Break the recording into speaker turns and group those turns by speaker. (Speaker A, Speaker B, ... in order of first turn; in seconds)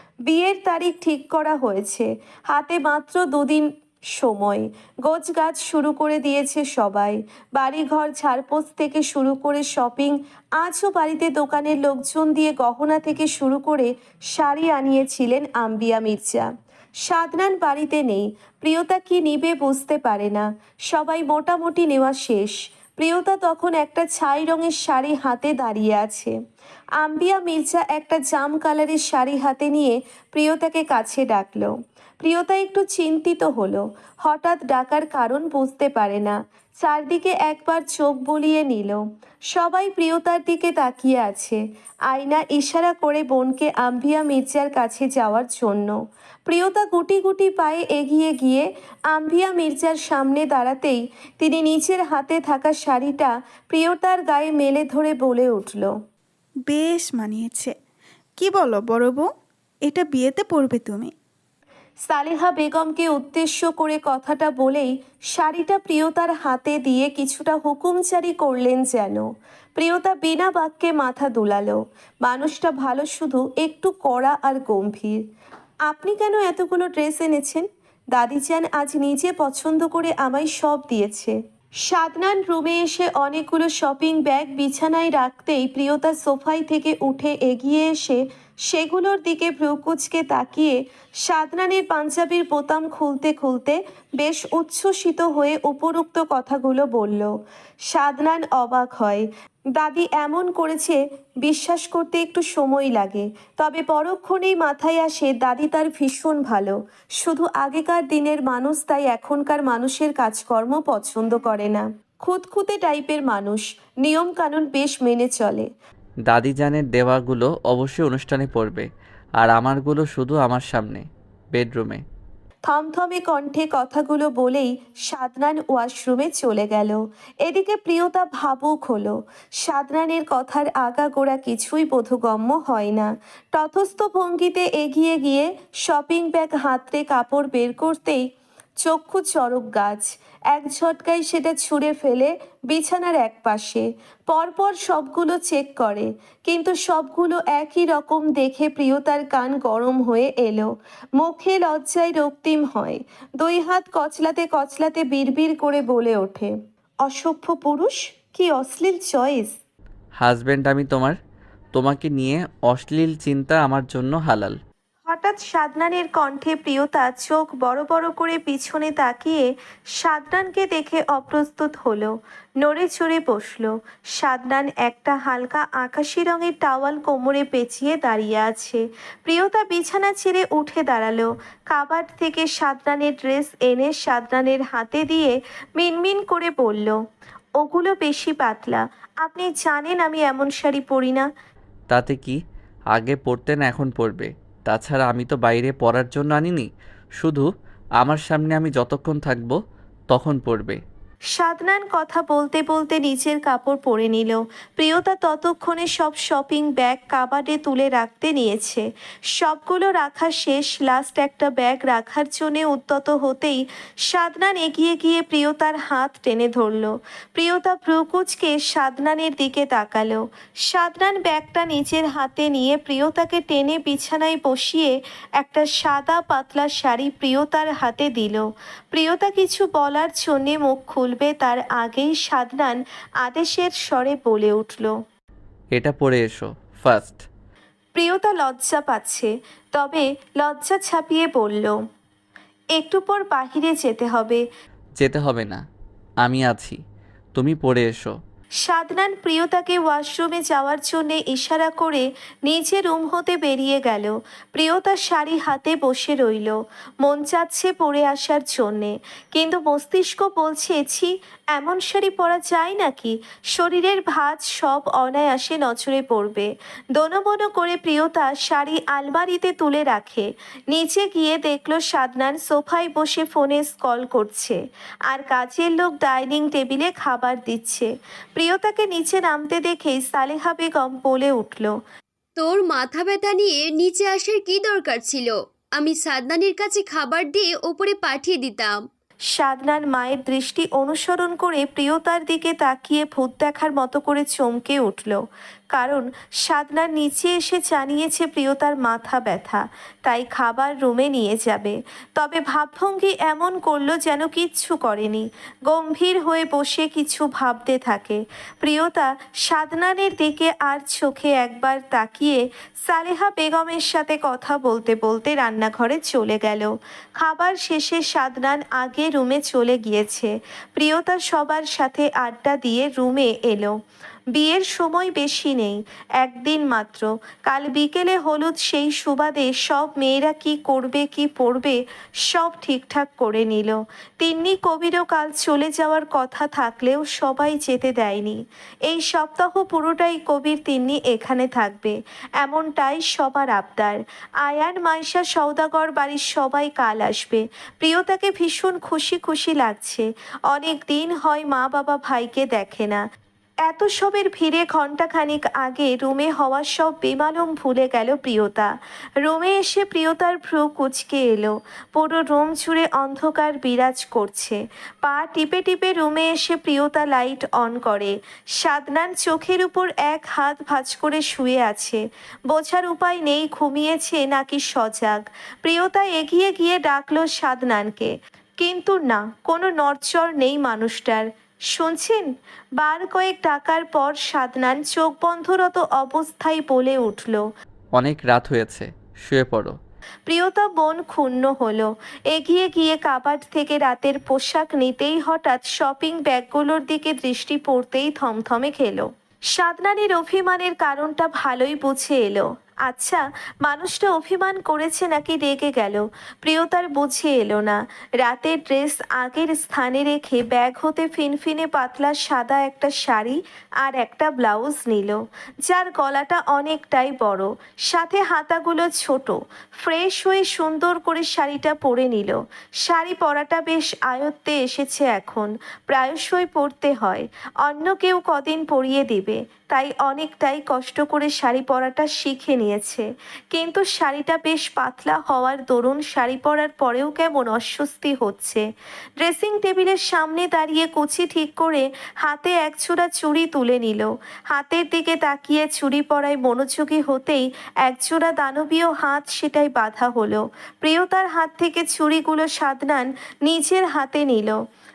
Speaker A: 0.2-16.5, 17.0-26.3, 27.0-55.9, 62.0-75.2, 75.9-81.3, 81.9-97.3, 97.9-115.7, 122.6-138.2, 138.8-156.5, 157.0-159.5, 165.1-187.0, 187.6-191.3, 201.3-234.9, 237.9-241.8, 242.8-244.4, 248.6-281.8, 289.3-323.8, 324.3-353.0, 353.6-387.5, 390.3-438.6, 439.2-454.6
Speaker B: 56.7-57.7, 58.4-59.3, 59.9-61.1
Speaker C: 116.3-118.9, 119.4-122.0, 160.2-161.1, 161.7-164.6, 191.9-192.4, 192.9-196.7, 197.2-197.5, 198.0-199.5, 200.1-200.8, 235.7-237.2, 245.0-245.6, 246.2-246.8, 247.3-248.1, 387.9-389.8
Speaker D: 282.4-288.8